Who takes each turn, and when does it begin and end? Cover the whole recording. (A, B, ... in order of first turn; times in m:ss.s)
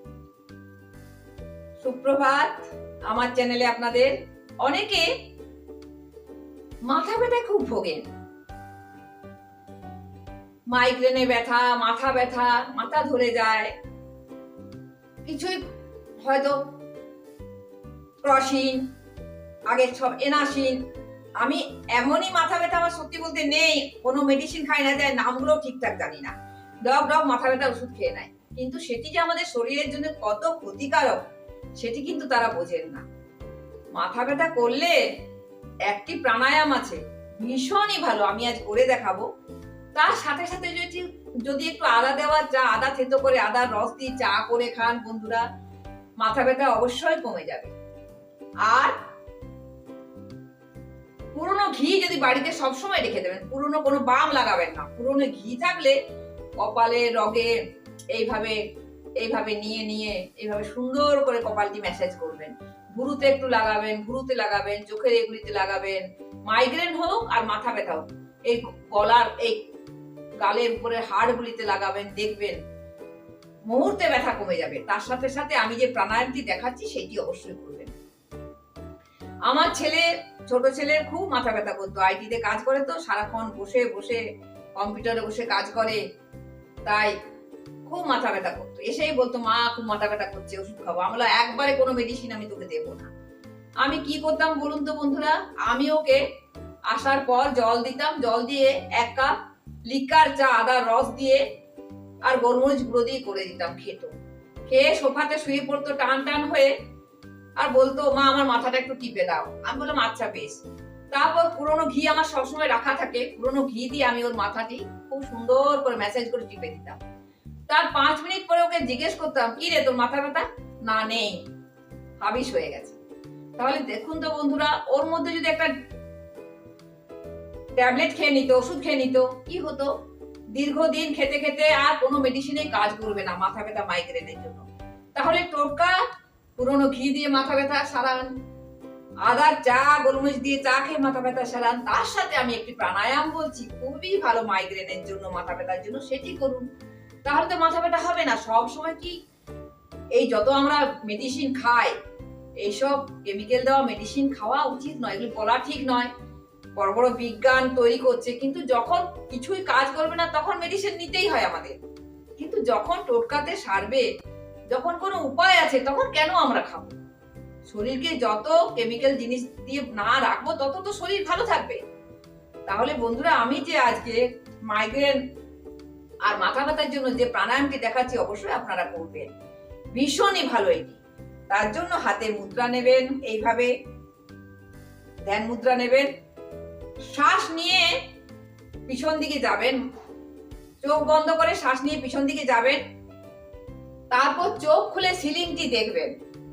0:01.8-0:05.1 A
0:06.8-0:08.0 A
0:10.7-0:13.7 A
0:15.2-0:15.6 A
0:16.2-0:16.6 A
0:18.2-0:18.8 A
0:19.7-0:20.8 A
0:21.4-0:31.2 A
0:31.8-0:33.0 A
0:33.9-0:35.0 A
0:35.9-0:39.2 A
0:39.9-0:45.4 A
0:46.2-0:47.7 A
0:48.6-0:48.9 A
0:51.3-0:56.0 A
0:56.6-0:57.6 A
0:58.1-0:58.6 A
0:59.2-1:09.6 A
1:10.4-1:12.6 A
1:13.7-1:17.9 A
1:19.5-1:24.2 A
1:24.8-1:26.0 A
1:26.8-1:27.1 A
1:27.8-1:33.1 A
1:33.8-1:36.2 A
1:36.9-1:39.3 A
1:39.9-1:41.4 A
1:42.2-1:44.1 A
1:44.7-1:46.7 A
1:47.6-1:50.6 A
1:51.1-1:57.0 A
1:57.7-2:01.4 A
2:02.2-2:03.0 A
2:03.6-2:05.7 A
2:07.8-2:09.9 A
2:10.5-2:14.6 A
2:15.1-2:16.0 A
2:16.6-2:18.3 A
2:19.2-2:26.6 A
2:27.2-2:29.2 A
2:30.1-2:32.0 A
2:32.6-2:36.1 A
2:36.8-2:41.8 A
2:42.4-2:44.1 A
2:44.7-2:47.0 A
2:47.7-2:51.8 A
2:52.6-2:55.2 A
2:56.2-2:59.3 A
2:59.9-3:01.0 A
3:01.5-3:03.7 A
3:05.2-3:06.1 A
3:07.1-3:08.0 A
3:08.9-3:09.8 A
3:10.8-3:12.8 A
3:14.1-3:16.1 A